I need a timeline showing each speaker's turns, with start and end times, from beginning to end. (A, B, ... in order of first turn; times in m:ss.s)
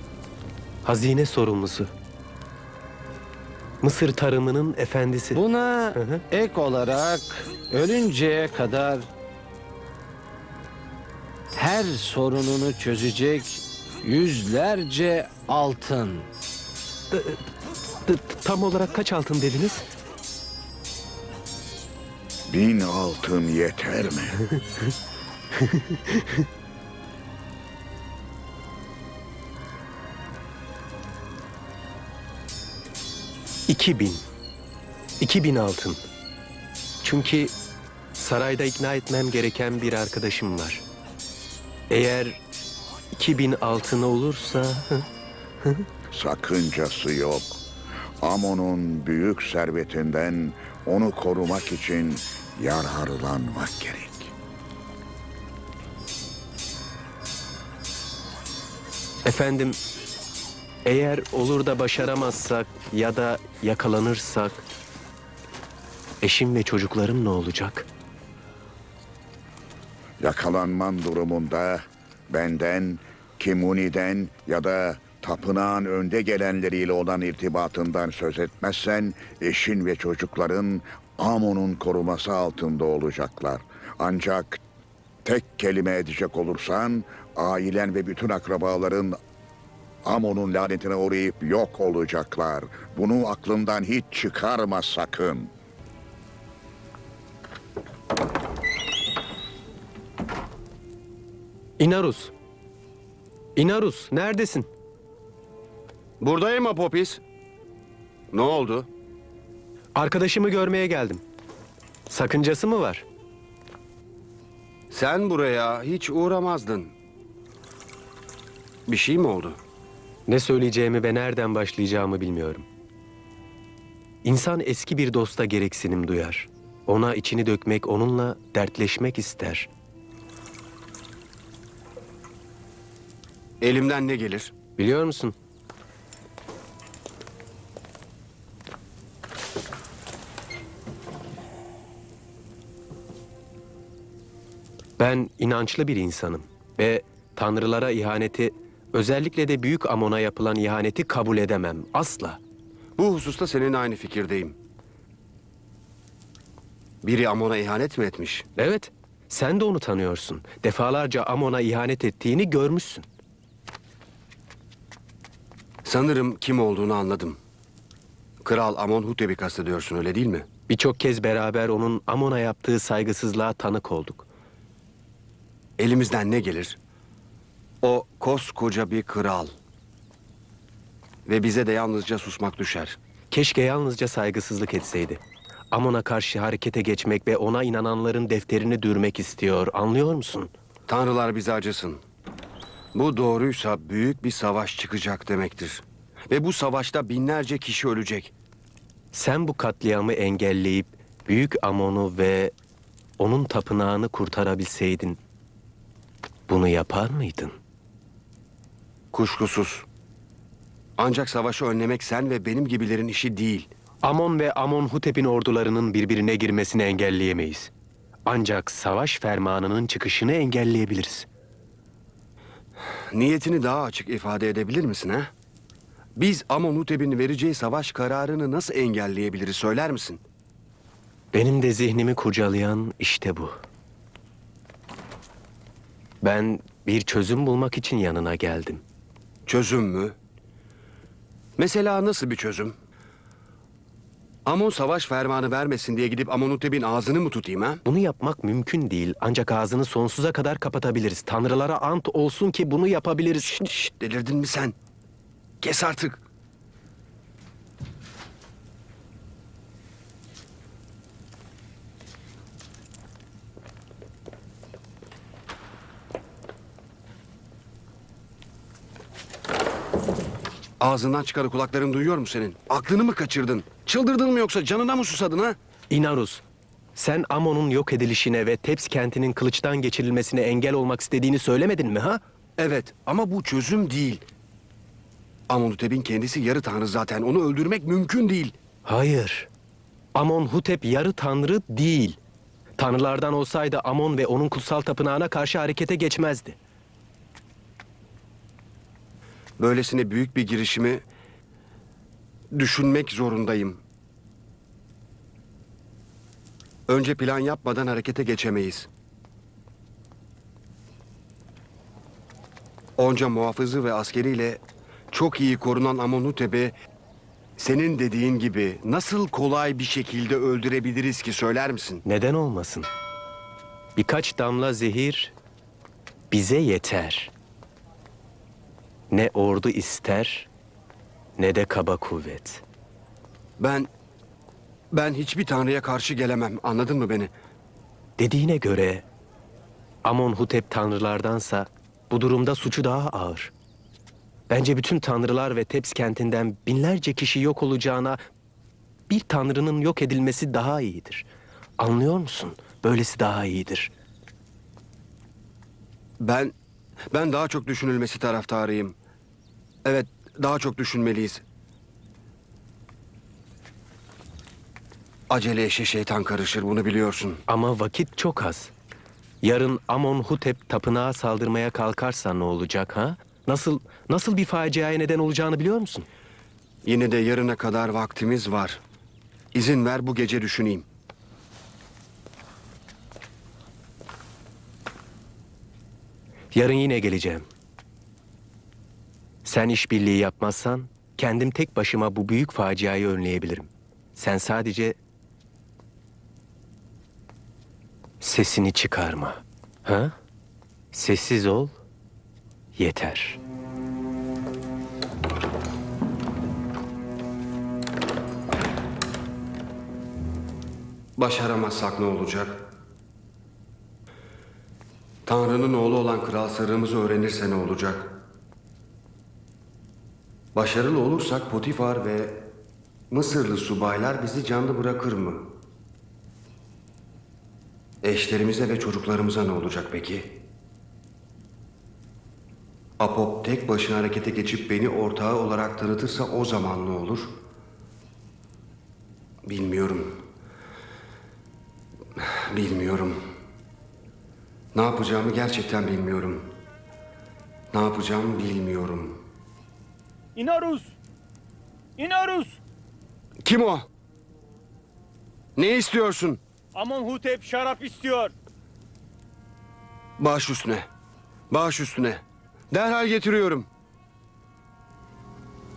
0:00.8-0:01.9 A
0:03.8-0:05.4 A
0:05.3-0:09.1 B
0:06.0-0:06.2 A
0:11.5-0:16.3 B
0:17.1-0:17.4 A
0:18.0-0:19.8 A
0:22.5-0:24.4 C
0:25.7-0:26.2 A
0:33.7-0:34.2 A
0:35.2-0:36.0 A
0:37.0-0:37.5 A
0:38.2-0:40.8 A
0:41.9-0:42.4 A
0:43.1-0:45.1 A
0:46.1-0:47.6 C
0:48.2-0:54.3 C
0:59.2-0:59.8 A
1:00.8-1:04.6 A
1:06.2-1:07.9 A
1:10.2-1:24.6 C
1:25.2-1:29.2 C
1:30.0-1:35.5 C
1:41.8-1:42.3 A
1:43.6-1:44.7 A
1:46.2-1:47.2 D
1:48.3-1:48.9 D
1:49.9-1:51.2 A
1:52.1-1:53.0 A
1:54.9-1:56.9 D
1:58.9-1:59.6 D
2:00.3-2:02.7 A
2:04.2-2:09.7 A
2:13.6-2:14.5 D
2:14.8-2:15.3 A
2:25.0-2:32.4 A
2:33.0-2:34.6 D
2:37.0-2:38.4 D
2:38.6-2:43.1 A
2:45.8-2:47.4 D
2:48.4-2:50.5 D
2:50.7-2:54.2 A
2:55.8-2:56.8 D
2:57.8-2:59.5 D
3:01.2-3:03.0 D
3:03.3-3:10.5 A
3:10.9-3:12.0 D
3:12.9-3:18.3 D
3:19.1-3:22.5 A
3:23.2-3:25.2 A
3:26.5-3:27.6 A
3:29.1-3:29.9 D
3:31.0-3:33.7 D
3:34.0-3:37.7 A
3:38.2-3:41.3 A
3:43.1-3:45.3 D
3:46.2-3:50.2 D
3:51.3-3:53.6 A
3:56.2-3:58.8 A
3:59.5-4:00.2 D
4:01.6-4:02.7 D
4:04.4-4:07.8 D
4:07.8-4:13.7 A
4:13.6-4:14.8 D
4:15.6-4:16.2 D
4:30.8-4:35.6 D
4:35.9-4:36.4 A
4:37.0-4:42.2 A
4:42.6-4:44.2 D
4:45.5-4:48.5 D
4:48.8-4:49.5 A
4:50.1-4:52.2 A
4:52.8-4:56.6 A
4:59.6-5:01.0 D
5:02.5-5:03.8 D
5:06.9-5:08.9 D
5:13.0-5:16.7 D
5:17.6-5:22.0 D
5:22.0-5:22.9 A
5:24.0-5:25.3 A
5:26.3-5:27.3 A
5:29.1-5:30.5 A
5:31.4-5:32.6 A
5:33.6-5:33.9 D
5:34.9-5:37.3 D
5:38.2-5:39.0 A
5:40.0-5:43.5 A
5:44.5-5:48.2 A
5:49.1-5:51.3 A
5:51.8-5:53.9 A
5:56.2-5:56.5 D
5:57.1-5:59.0 D
5:59.8-6:01.4 D
6:05.3-6:07.4 D
6:07.5-6:08.7 A
6:09.4-6:16.1 A
6:16.8-6:18.8 D
6:19.5-6:20.9 D
6:26.5-6:27.4 A
6:29.4-6:35.0 A
6:38.2-6:40.1 A
6:40.9-6:41.7 A
6:42.8-6:43.4 A
6:51.2-6:52.7 D
6:55.2-6:58.2 D
7:00.5-7:02.4 D
7:03.1-7:05.5 D
7:08.0-7:10.4 D
7:13.0-7:17.3 D
7:19.4-7:20.2 D
7:22.2-7:23.2 D
7:24.7-7:26.6 D
7:27.7-7:29.2 D
7:30.4-7:30.7 E
7:32.0-7:32.3 E
7:33.4-7:33.9 D
7:35.6-7:36.4 D
7:36.8-7:38.3 E
7:40.2-7:40.9 D
7:41.5-7:43.7 D